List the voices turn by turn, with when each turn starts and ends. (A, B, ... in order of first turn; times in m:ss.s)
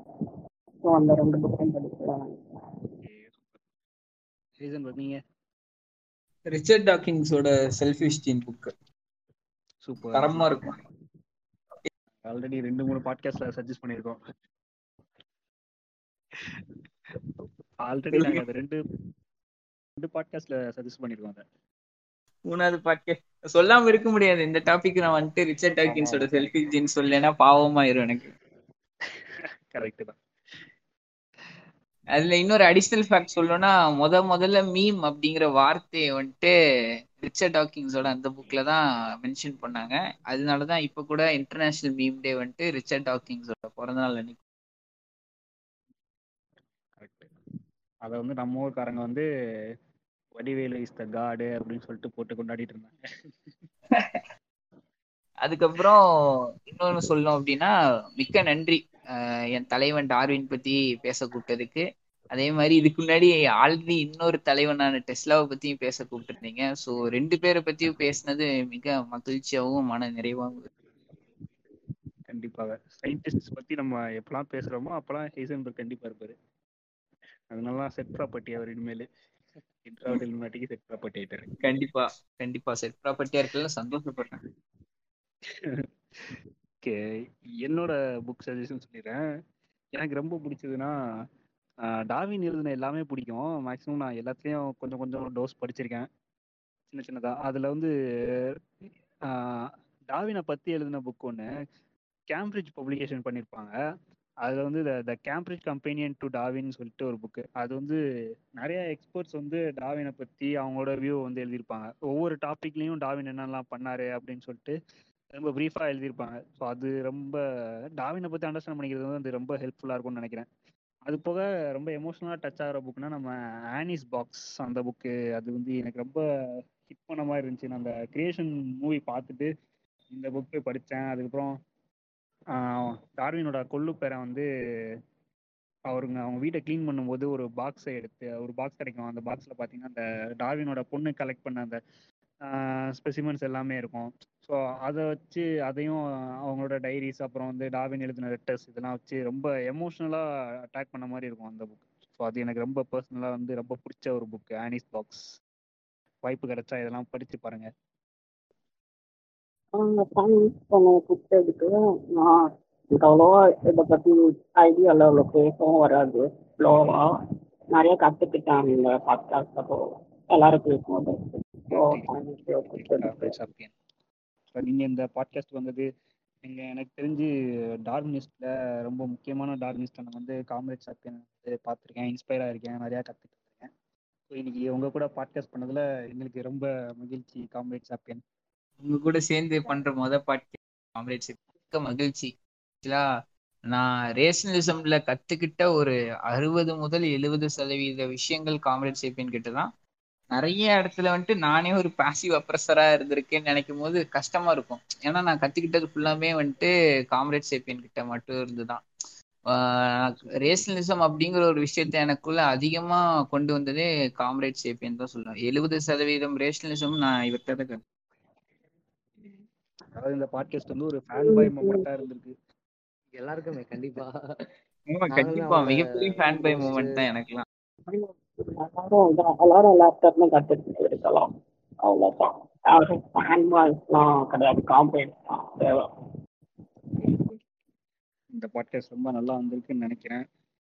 0:00.2-0:02.4 A
0:03.0-0:03.5 B
0:04.6-0:05.2 B
0:06.5-0:08.7 C
0:09.8-0:10.6 B
0:10.1-0:10.8 C
0:12.2-0:14.2 B
0:17.8-0:18.8 B
0:18.1-0:18.4 C
0:20.0-0:21.4 B
0:22.5-0:28.3 C
0:25.9-0:26.5 B
0:29.7-0:30.2 B
0:32.1-0:36.5 C
0:37.2-0:44.4 C
0:47.0-0:47.3 B
0:48.1-0:49.3 B
0:50.4-0:53.3 B
0:53.9-0:54.2 C
0:55.4-0:56.0 C
0:56.7-1:10.7 C
1:12.3-1:16.4 B
1:17.5-1:19.1 B
1:19.8-1:21.6 B
1:21.6-1:24.4 C
1:25.6-1:27.0 B
1:27.6-1:29.2 B
1:30.0-1:30.9 B
1:32.1-1:36.1 B
1:36.9-1:37.9 B
1:39.3-1:41.5 B
1:42.3-1:43.7 B
1:44.4-1:48.0 B
1:48.6-1:54.8 B
1:55.3-1:57.4 B
1:58.0-2:00.5 B
2:01.1-2:06.2 B
2:06.9-2:09.5 B
2:10.1-2:11.6 B
2:12.6-2:14.5 B
2:15.9-2:21.8 B
2:22.4-2:35.2 B
2:36.2-2:37.7 B
2:39.8-2:47.1 A
2:47.7-2:53.3 A
2:51.7-2:52.2 B
2:52.7-2:53.7 B
2:54.5-2:55.9 B
2:56.4-2:57.3 B
2:57.9-3:03.7 B
3:04.3-3:08.2 B
3:08.8-3:12.3 C
3:13.7-3:19.7 C
3:20.3-3:28.8 C
3:29.5-3:37.8 C
3:40.0-3:42.3 B
3:41.2-3:41.8 A
3:43.2-3:44.5 D
3:44.9-3:47.4 C
3:45.1-3:47.0 D
3:47.9-3:51.3 A
3:51.8-3:55.9 A
3:57.0-3:57.4 B
3:58.3-4:00.2 B